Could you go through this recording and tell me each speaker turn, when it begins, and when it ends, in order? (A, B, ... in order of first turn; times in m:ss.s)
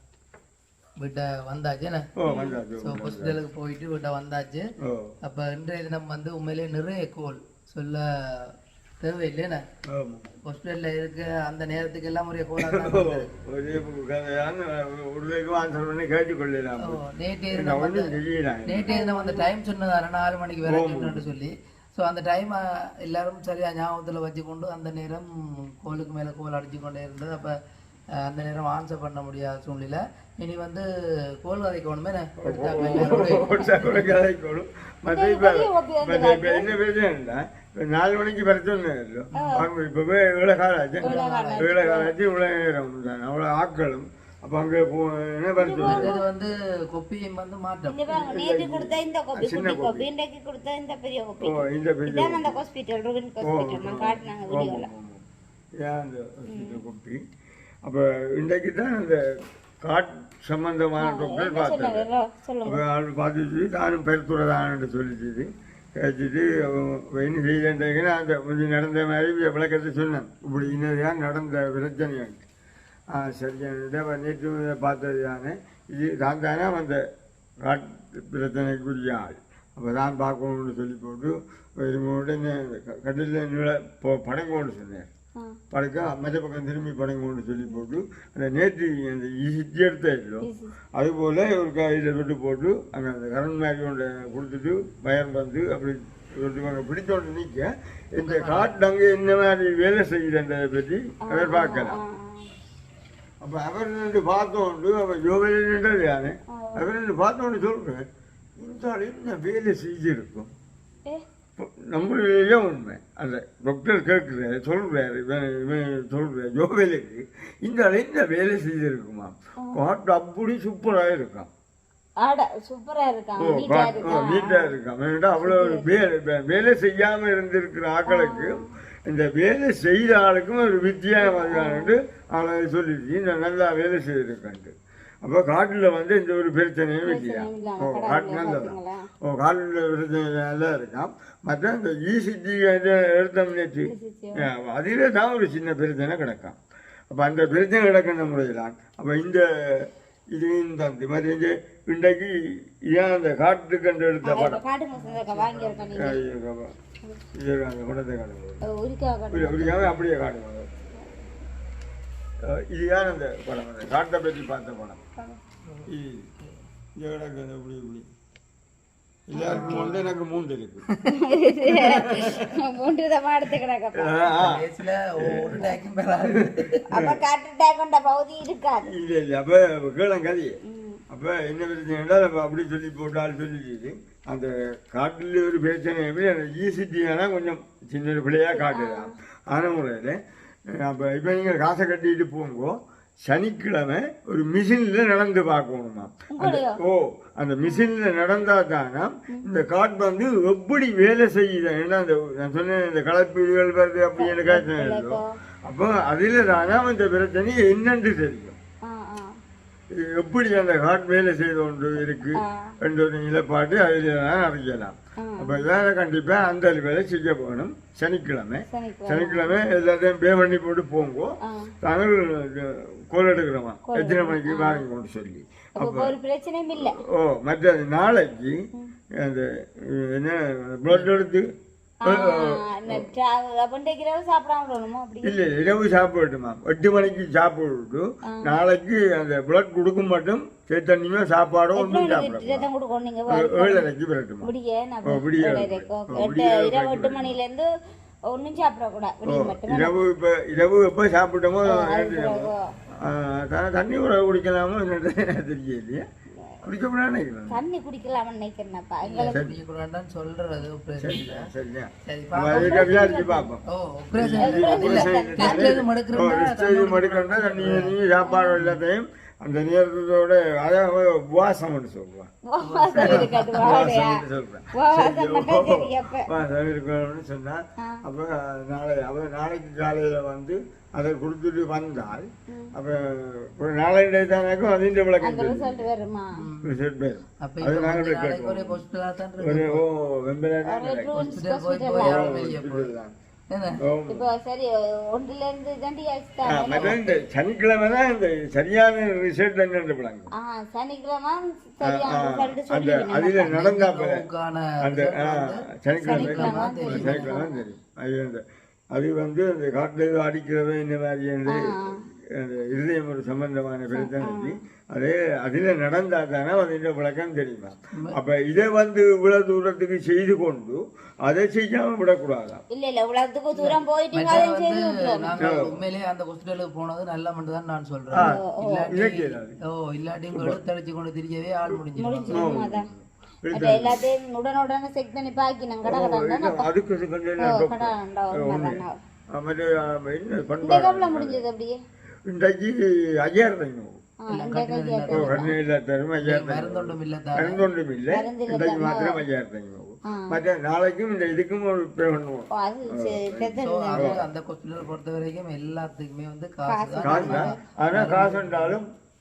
0:01.0-0:02.1 A
0:02.2-0:03.4 B
0:02.3-0:02.6 C
0:02.8-0:04.7 A
0:04.8-0:05.2 B
0:05.2-0:09.6 A
0:09.9-0:10.3 B
0:10.4-0:13.3 A
0:12.6-0:17.0 B
0:16.8-0:18.1 A
0:17.5-0:19.0 B
0:18.7-0:27.5 A
0:18.9-0:19.5 C
0:20.7-0:21.2 B
0:28.2-0:30.9 A
0:31.4-0:34.2 A
0:32.4-0:46.1 B
0:32.8-0:33.7 C
0:35.2-0:36.7 C
0:39.4-0:39.6 C
0:41.0-0:41.8 A
0:41.0-0:42.1 C
0:45.6-0:46.2 C
0:45.8-0:48.3 A
0:47.9-0:54.9 C
0:48.2-0:50.1 B
0:51.4-0:52.6 B
0:53.4-0:55.2 B
0:55.8-0:57.2 B
0:56.5-0:56.8 C
0:57.8-1:02.1 B
1:01.0-1:02.8 C
1:02.6-1:12.4 B
1:13.1-1:17.0 B
1:17.6-1:25.1 B
1:25.7-1:42.0 B
1:30.4-1:30.7 C
1:38.2-1:38.7 A
1:41.3-1:42.5 C
1:43.4-1:48.1 B
1:46.5-1:46.9 C
1:48.6-1:50.5 B
1:51.6-2:01.5 B
2:02.2-2:04.7 C
2:03.4-2:26.6 B
2:05.4-2:05.9 C
2:08.1-2:08.7 C
2:11.2-2:12.0 C
2:17.1-2:19.1 C
2:23.9-2:24.5 C
2:27.1-2:32.4 B
2:32.9-2:34.6 B
2:34.2-2:36.2 C
2:35.0-2:36.1 A
2:35.9-2:36.8 B
2:37.3-2:38.6 B
2:38.7-2:39.9 C
2:39.3-2:40.7 B
2:42.4-2:45.0 B
2:45.9-2:46.3 B
2:47.0-2:48.1 B
2:49.3-2:50.8 B
2:49.4-2:49.9 C
2:49.4-2:50.1 A
2:50.9-2:51.1 A
2:51.1-2:54.2 C
2:51.7-2:52.0 A
2:51.7-2:52.6 B
2:54.0-2:57.2 B
2:54.2-2:56.9 A
2:56.9-2:58.9 C
2:58.9-3:00.6 B
3:00.7-3:01.0 C
3:01.1-3:28.6 B
3:08.6-3:09.1 C
3:16.3-3:16.8 C
3:24.2-3:25.2 C
3:28.8-3:29.3 C
3:29.9-3:46.2 B
3:32.3-3:32.8 C
3:35.2-3:35.6 C
3:38.7-3:39.6 C
3:41.4-3:41.7 C
3:43.9-3:44.8 C
3:45.8-3:47.0 C
3:46.8-3:48.6 B
3:49.2-3:51.5 B
3:52.0-3:55.4 C
3:52.0-3:53.1 B
3:55.2-4:02.7 B
3:58.2-3:58.6 C
4:01.8-4:03.9 C
4:03.3-4:04.5 B
4:04.4-4:07.7 C
4:05.0-4:07.4 B
4:08.3-4:09.9 C
4:09.3-4:16.1 B
4:11.7-4:12.6 C
4:16.6-4:17.6 B
4:17.5-4:19.4 C
4:19.0-4:21.5 A
4:19.3-4:19.6 B
4:21.0-4:23.6 B
4:22.1-4:23.2 A
4:22.5-4:23.5 C
4:23.7-4:28.0 A
4:24.2-4:32.3 B
4:24.4-4:25.8 C
4:28.2-4:28.6 C
4:32.5-4:34.2 C
4:32.6-4:33.9 A
4:33.0-4:45.9 B
4:34.8-4:36.3 C
4:45.2-4:46.3 C
4:46.4-4:46.8 A
4:46.6-4:48.8 B
4:47.4-4:49.8 A
4:49.4-4:51.2 B
4:50.6-4:52.4 C
4:51.1-4:52.9 A
4:52.0-4:53.1 B
4:53.5-4:53.8 A
4:53.8-4:54.3 B
4:54.1-4:57.2 C
4:56.4-5:00.3 B
5:00.4-5:03.6 C
5:01.8-5:04.2 B
5:03.4-5:07.4 A
5:04.8-5:08.4 B
5:06.1-5:07.6 C
5:08.9-5:11.7 B
5:11.5-5:12.0 C
5:12.4-5:22.6 B
5:14.0-5:14.5 C
5:22.7-5:25.3 C
5:23.6-5:32.6 A
5:25.4-5:25.8 B
5:28.1-5:29.6 B
5:28.2-5:28.6 C
5:30.3-5:30.6 B
5:32.0-5:32.9 C
5:32.3-5:34.0 B
5:33.5-5:36.7 C
5:35.8-5:41.4 B
5:37.4-5:38.9 C
5:40.6-5:41.8 C
5:42.3-5:44.0 B
5:44.3-5:45.5 C
5:44.3-5:45.5 A
5:45.1-5:54.2 B
5:46.2-5:47.6 A
5:48.1-5:49.2 C
5:50.1-5:50.4 C
5:52.5-5:54.2 C
5:53.6-5:58.8 A
5:56.7-5:57.5 C
5:57.0-5:58.9 B